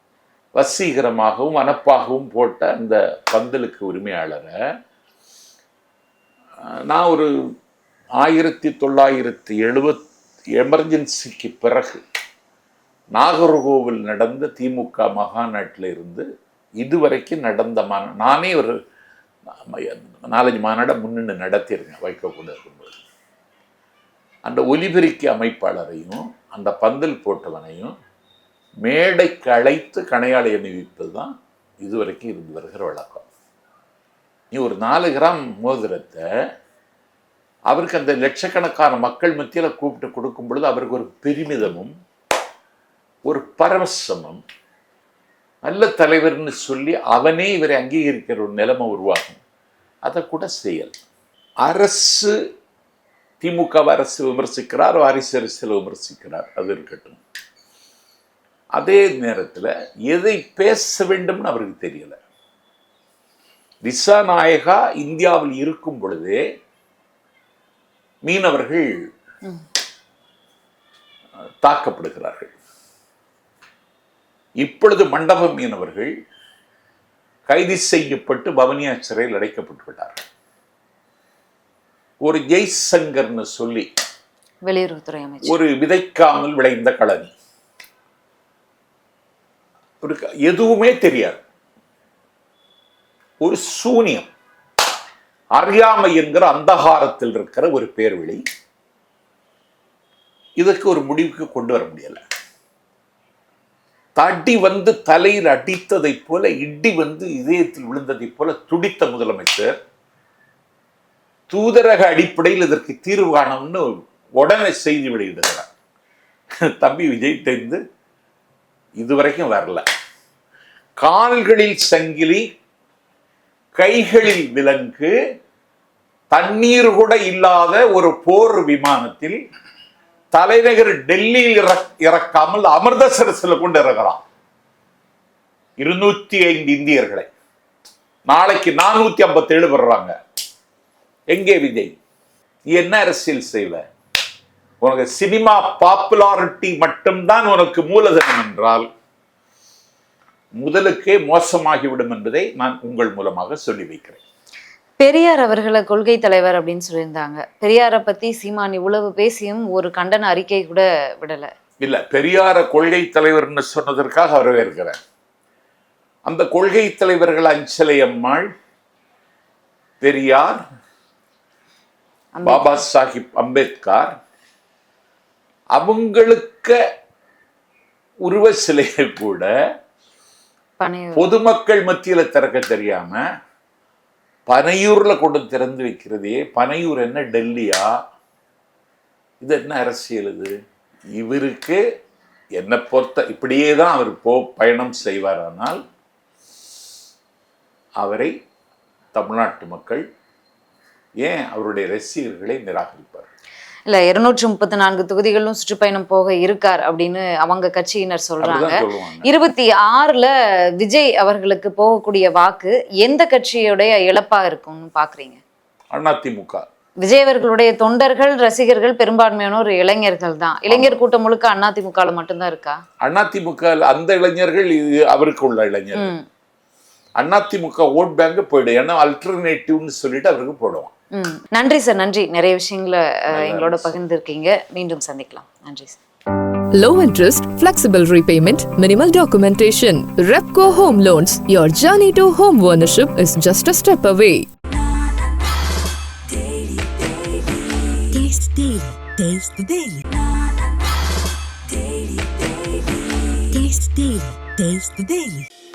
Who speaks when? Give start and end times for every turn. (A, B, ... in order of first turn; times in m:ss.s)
0:00.5-0:04.5 A
0:06.6-0:07.3 A
0:08.2-0:10.0 A
0:10.5-0:12.0 A
0:13.1-0:16.2 A
0:16.8-0:18.8 A
0:19.6-0:23.0 A
0:24.5-0:27.9 A
0:28.8-0:31.3 A
0:31.8-0:33.2 A
0:34.5-0:36.2 A
0:37.7-0:41.9 A
0:43.2-0:44.4 A
0:45.6-0:49.4 A
0:50.0-0:51.0 A
0:51.6-0:52.3 A
0:53.4-0:57.2 A
0:58.8-1:02.2 A
1:03.8-1:06.4 A
1:08.2-1:09.0 A
1:11.6-1:12.5 A
1:14.6-1:16.1 A
1:17.5-1:20.2 A
1:22.2-1:23.9 A
1:24.6-1:25.6 B
1:25.4-1:27.3 A
1:30.0-1:31.4 A
1:33.4-1:34.3 A
1:35.5-1:38.4 A
1:40.6-1:42.2 A
1:44.1-1:49.8 A
1:51.5-1:55.7 A
1:56.7-1:57.8 A
1:59.0-1:59.8 A
2:01.0-2:02.4 A
2:03.8-2:05.1 A
2:06.3-2:09.4 A
2:10.3-2:14.2 A
2:15.8-2:17.2 A
2:18.3-2:20.1 A
2:21.3-2:22.0 A
2:22.7-2:23.8 A
2:24.8-2:28.9 A
2:30.6-2:34.2 A
2:35.0-2:41.5 B
2:41.8-2:45.0 A
2:46.2-2:48.5 A
2:50.0-2:50.6 A
2:52.4-2:52.8 B
2:52.4-2:54.1 A
2:55.8-2:56.7 A
2:58.2-2:59.5 A
3:00.8-3:01.3 B
3:01.1-3:03.2 A
3:04.5-3:07.9 A
3:09.4-3:10.5 A
3:11.2-3:11.8 A
3:12.6-3:15.8 A
3:18.0-3:18.3 A
3:19.1-3:20.0 A
3:21.2-3:23.3 A
3:23.9-3:35.4 B
3:28.4-3:29.3 A
3:35.9-3:36.6 A
3:37.0-3:42.8 B
3:40.7-3:41.0 A
3:43.0-3:46.1 A
3:46.0-3:46.2 B
3:47.2-3:50.9 A
3:51.2-3:56.0 B
3:53.3-3:54.0 A
3:56.7-4:04.5 C
4:08.1-4:09.6 C
4:09.5-4:10.0 D
4:13.5-4:15.5 D